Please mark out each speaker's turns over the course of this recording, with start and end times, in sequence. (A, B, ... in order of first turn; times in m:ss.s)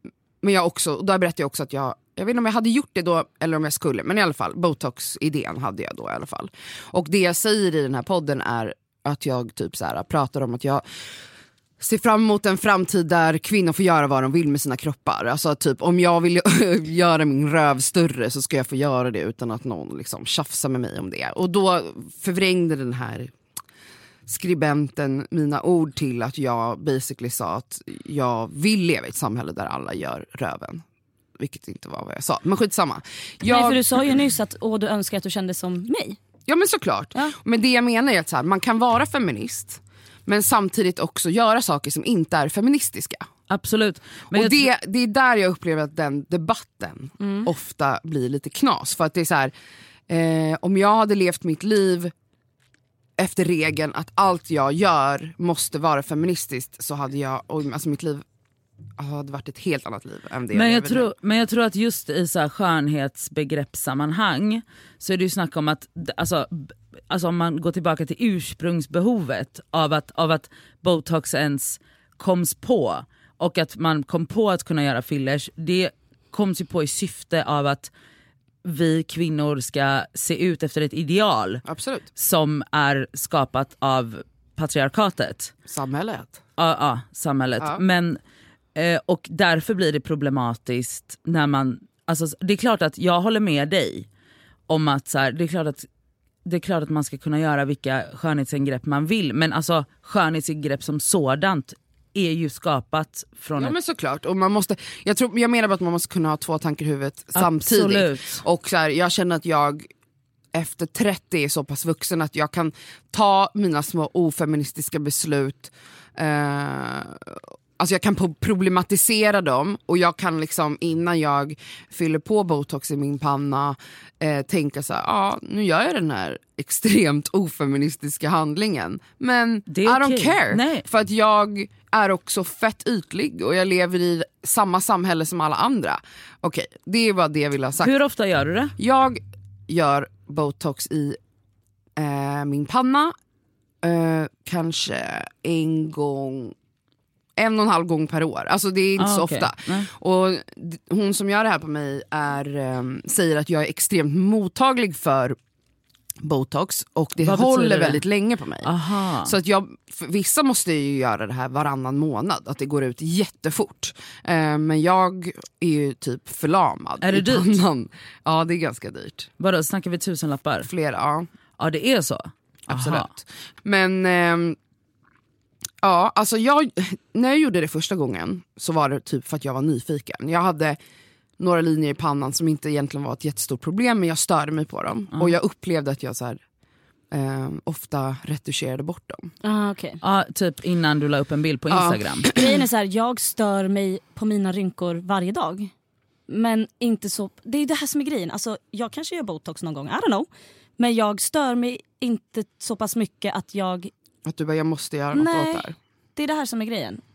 0:00.4-0:10.8 A
0:11.8-0:23.3 A
0:24.3-0:30.8 A
0:31.4-0:33.8 A
0:33.4-0:36.2 B
0:36.5-0:43.3 A
0:43.5-0:44.7 C
0:44.3-0:49.5 A
0:47.2-0:47.5 B
0:50.1-0:52.1 A
0:53.2-0:58.2 A
0:59.0-1:01.1 A
1:00.5-1:17.9 C
1:18.6-1:21.6 C
1:21.6-1:22.1 A
1:22.2-1:25.5 C
1:25.7-1:26.4 A
1:26.6-1:28.2 C
1:28.8-1:34.1 C
1:34.7-1:35.9 C
1:36.4-1:43.8 C
1:43.6-1:49.9 A
1:47.4-1:48.4 C
1:50.5-2:17.9 A
2:09.7-2:10.8 C
2:17.8-2:18.7 C
2:18.8-2:21.2 A
2:22.0-2:23.1 A
2:23.8-2:26.6 A
2:27.4-2:35.4 A
2:29.0-2:29.9 C
2:36.2-2:49.3 A
2:37.2-2:38.0 C
2:38.6-2:39.3 C
2:47.0-2:47.6 C
2:49.4-2:50.7 C
2:50.6-2:51.3 A
2:51.6-2:53.1 C
2:52.7-2:54.6 A
2:55.8-3:00.8 A
3:01.4-3:06.4 A
3:07.1-3:09.3 A
3:09.4-3:10.0 B
3:10.0-3:12.3 C
3:11.7-3:12.5 A
3:12.3-3:15.7 B
3:16.3-3:20.3 B
3:20.8-3:23.9 B
3:24.2-3:25.8 A
3:25.1-3:27.0 B